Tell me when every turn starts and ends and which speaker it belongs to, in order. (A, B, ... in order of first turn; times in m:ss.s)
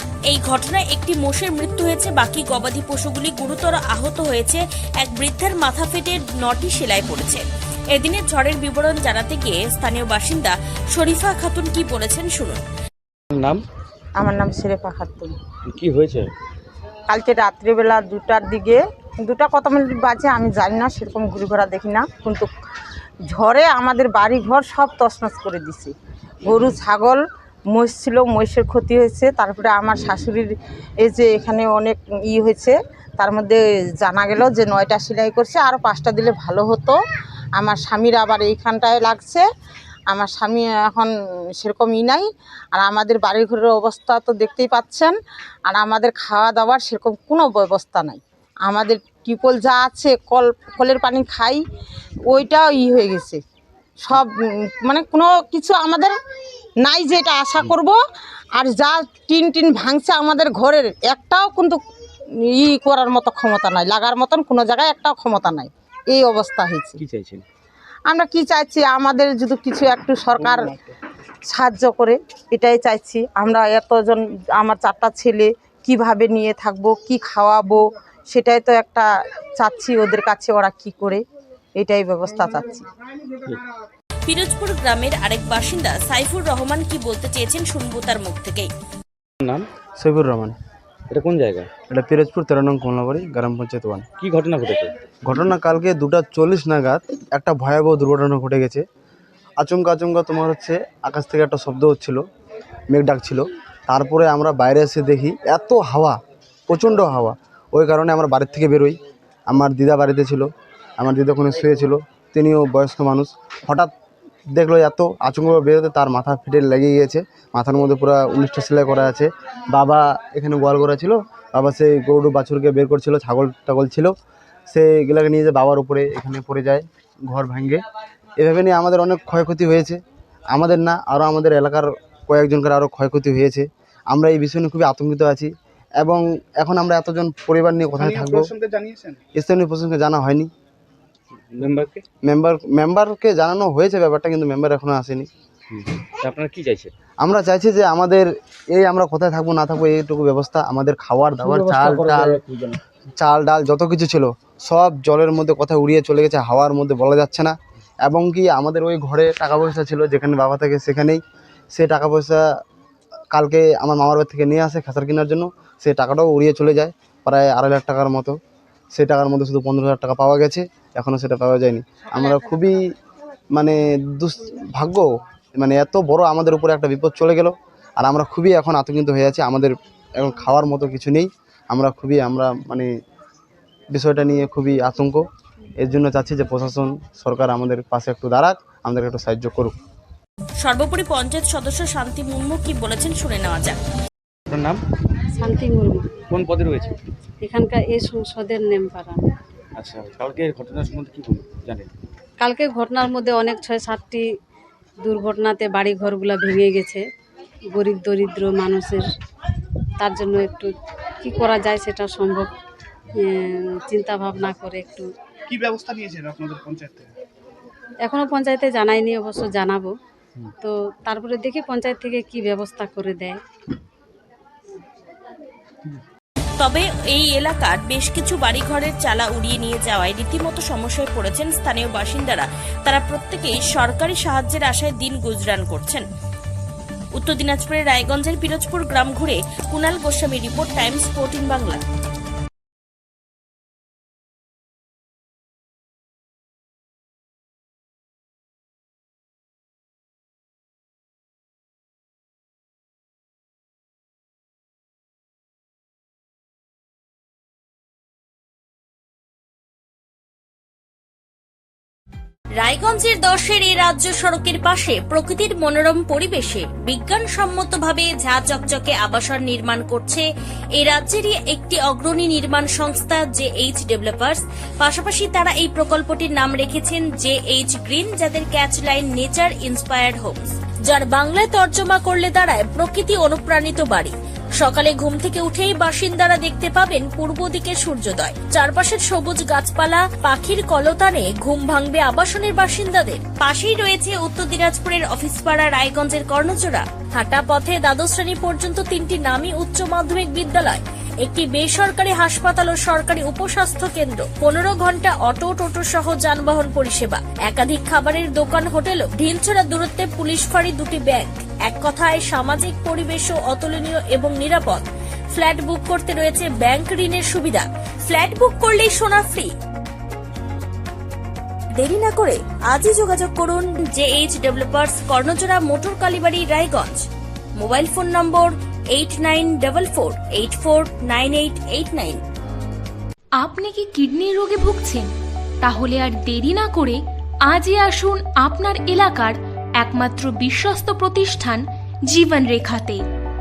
0:00.3-0:12.6 A
0:14.2-0:15.3 B
0:15.7-0:16.2 C
0:17.1-0:22.5 B
0:23.3-0:25.9 B
0:26.4-0:27.2 B
0:27.7-0:30.5 B
0:31.0-0:37.0 B
0:37.6-0:39.4 B
0:40.1-0:45.1 B
0:45.7-0:51.6 B
0:52.3-0:53.4 B
0:54.0-0:56.1 B
0:56.8-0:58.0 B
0:58.6-1:01.8 B
1:02.5-1:07.0 B
1:07.0-1:07.4 C
1:08.1-1:10.7 B
1:11.5-1:19.0 B
1:19.6-1:21.2 B
1:21.8-1:22.8 B
1:24.2-1:28.7 A
1:30.0-1:30.5 D
1:31.1-1:31.6 C
1:31.9-1:34.0 D
1:34.2-1:34.9 C
1:35.2-1:38.8 D
1:39.6-1:42.2 D
1:42.9-1:46.2 D
1:46.7-1:49.0 D
1:49.5-1:53.9 D
1:54.5-2:04.1 D
2:04.7-2:07.8 D
2:08.4-2:10.0 D
2:10.5-2:18.5 D
2:18.0-2:19.2 E
2:19.3-2:20.5 D
2:21.5-2:22.0 C
2:22.2-2:25.3 D
2:25.7-2:26.9 C
2:27.2-2:32.4 D
2:33.2-2:37.5 D
2:38.0-2:41.2 D
2:41.7-2:42.4 D
2:43.3-2:48.4 D
2:48.9-2:52.9 D
2:53.6-3:02.9 D
3:03.9-3:05.2 D
3:05.8-3:09.7 D
3:10.6-3:13.8 A
3:14.5-3:14.8 C
3:15.4-3:16.1 F
3:16.3-3:16.8 C
3:17.4-3:19.2 F
3:19.8-3:21.9 C
3:22.4-3:24.2 F
3:25.0-3:27.0 F
3:27.7-3:29.0 F
3:30.0-3:30.7 F
3:31.2-3:32.5 F
3:33.1-3:35.0 F
3:35.5-3:37.1 E
3:38.0-3:39.9 F
3:40.6-3:43.4 F
3:46.6-3:56.0 A
3:57.1-4:01.8 A
4:22.6-5:19.5 A
5:21.8-5:27.0 A
5:27.6-5:32.2 A
5:33.4-5:35.1 G
5:35.6-5:43.0 G